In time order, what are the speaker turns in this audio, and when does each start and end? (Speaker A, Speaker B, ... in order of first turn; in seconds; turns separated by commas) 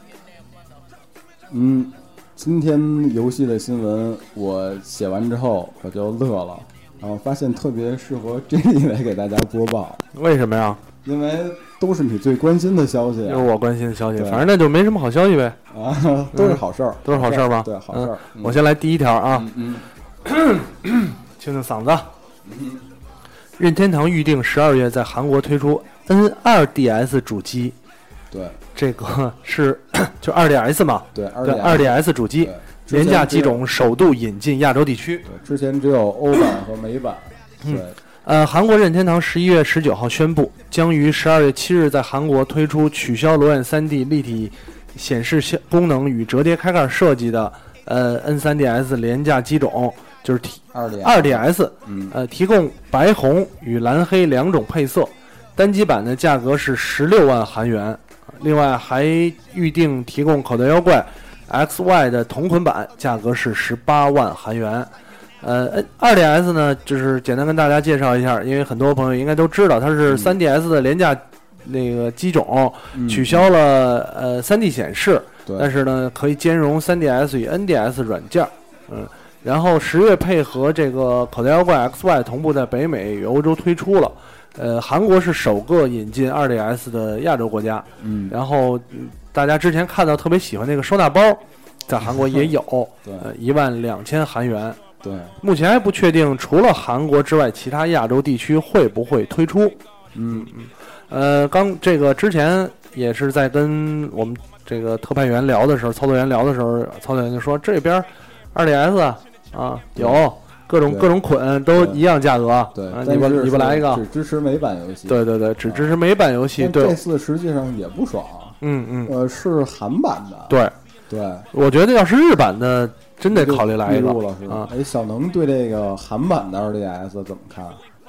Speaker A: 1.5-10.0, Speaker B: 10.1-10.8, Speaker A: 11.0-13.5, Speaker B: 13.2-15.6, Speaker A: 14.1-14.5, Speaker A: 15.7-18.6, Speaker B: 16.3-19.5, Speaker A: 19.3-19.9, Speaker B: 20.2-22.1, Speaker A: 22.4-22.8, Speaker B: 23.6-27.8, Speaker A: 28.3-28.6, Speaker B: 28.7-35.3, Speaker A: 31.1-33.6, Speaker A: 35.2-38.0, Speaker B: 37.6-64.9, Speaker A: 50.7-52.2, Speaker B: 65.4-94.8, Speaker A: 70.1-70.4, Speaker A: 72.9-73.5, Speaker A: 75.5-75.7, Speaker A: 88.0-88.4, Speaker A: 92.1-92.5, Speaker A: 93.0-93.3, Speaker A: 95.0-95.3, Speaker B: 95.4-99.8, Speaker A: 100.1-100.5, Speaker B: 100.5-114.0, Speaker A: 110.0-110.2, Speaker A: 110.8-111.2, Speaker A: 111.7-112.0, Speaker A: 112.7-116.0, Speaker B: 115.1-117.0, Speaker A: 116.5-121.5, Speaker B: 118.6-119.1, Speaker B: 120.5-120.7, Speaker B: 121.5-124.7, Speaker A: 123.3-127.8